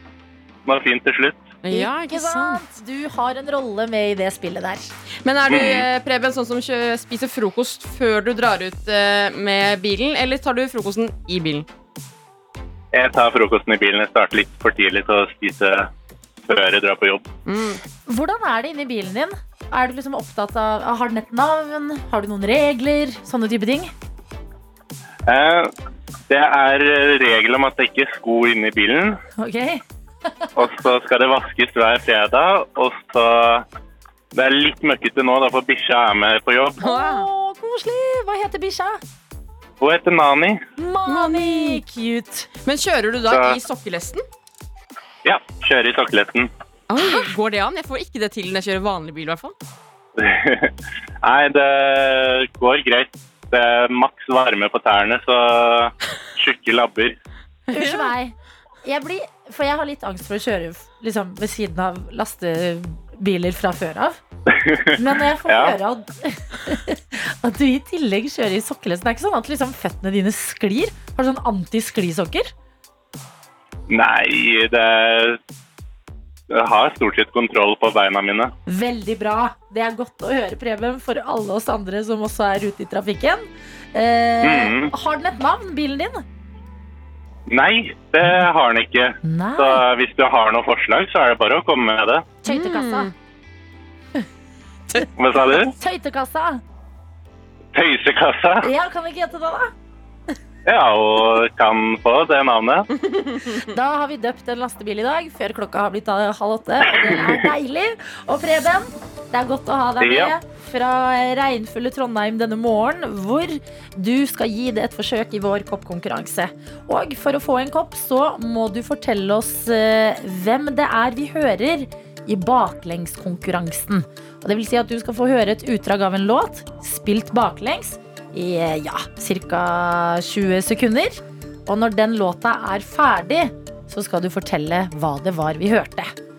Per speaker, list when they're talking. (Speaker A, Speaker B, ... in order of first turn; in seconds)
Speaker A: 0.7-1.5, 5.5-5.9, 12.9-15.9, 16.5-17.3, 25.3-25.7, 26.3-29.2, 30.6-33.6, 34.3-36.9, 39.8-40.6, 43.3-43.6, 45.2-46.5, 50.2-57.1, 64.5-64.9, 65.5-65.8, 73.9-75.4, 76.5-78.5, 84.4-84.9, 87.5-92.3, 95.2-95.7, 97.7-98.7, 100.7-102.9, 107.1-107.4, 110.0-110.3
Speaker B: 1.6-2.6, 5.2-11.7, 17.5-17.8, 36.9-37.3, 41.1-41.8, 42.6-44.2, 46.9-49.5, 57.7-58.1, 92.5-93.1, 103.1-103.4
Speaker C: 1.7-4.9, 18.1-23.9, 29.4-29.8, 36.8-39.0, 40.8-42.5, 57.7-58.3, 58.9-64.2, 65.0-72.5, 78.7-86.2, 89.2-89.8, 92.4-93.1, 95.7-96.6, 98.6-99.7, 103.6-136.1